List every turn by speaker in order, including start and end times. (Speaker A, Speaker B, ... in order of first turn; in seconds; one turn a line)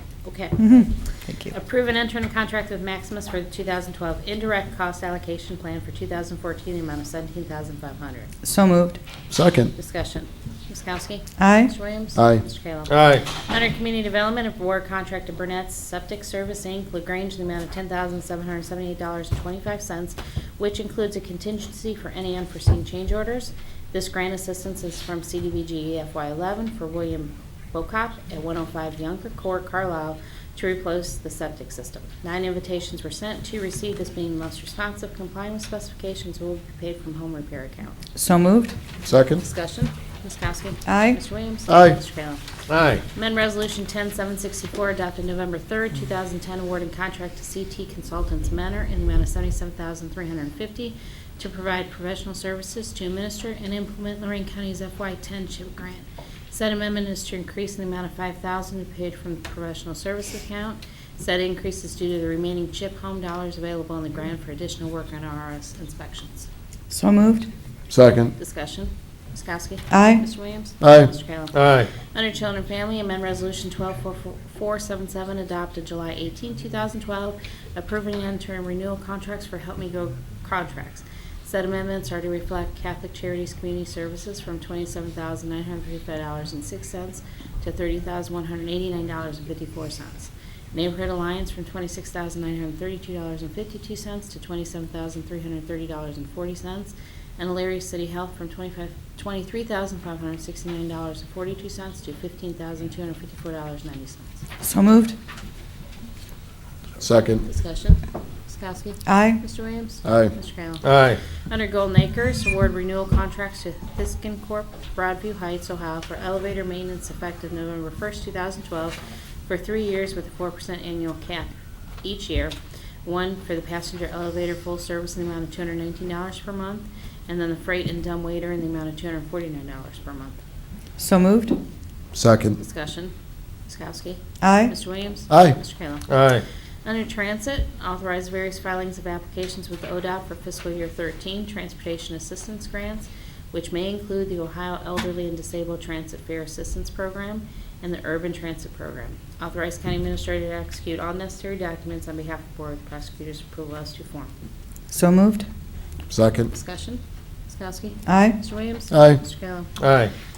Speaker A: 0.2-8.3
Speaker B: 0.6-1.6
Speaker B: 8.4-9.0
Speaker C: 9.3-9.7
Speaker A: 9.8-38.0
Speaker B: 11.4-11.8
Speaker C: 12.2-12.4
Speaker D: 12.9-13.3
Speaker B: 38.2-38.8
Speaker C: 39.0-39.4
Speaker A: 39.4-42.4
Speaker B: 40.9-41.2
Speaker C: 41.7-42.0
Speaker D: 42.7-43.0
Speaker A: 43.1-66.5
Speaker B: 66.9-67.5
Speaker C: 67.9-68.3
Speaker A: 68.4-104.3
Speaker B: 69.9-70.2
Speaker C: 70.8-71.1
Speaker D: 71.5-71.9
Speaker B: 104.6-105.2
Speaker C: 107.0-107.5
Speaker A: 107.4-110.9
Speaker B: 109.1-109.4
Speaker C: 110.0-110.3
Speaker D: 110.8-111.2
Speaker A: 111.5-130.4
Speaker B: 131.0-131.6
Speaker C: 132.1-132.6
Speaker A: 132.6-133.1
Speaker A: 133.7-136.2
Speaker B: 134.4-134.7
Speaker C: 135.3-135.6
Speaker D: 136.1-136.4
Speaker A: 136.8-154.3
Speaker B: 154.9-155.5
Speaker C: 156.1-156.5
Speaker A: 156.5-159.7
Speaker B: 158.1-158.4
Speaker C: 158.9-159.2
Speaker D: 159.8-160.1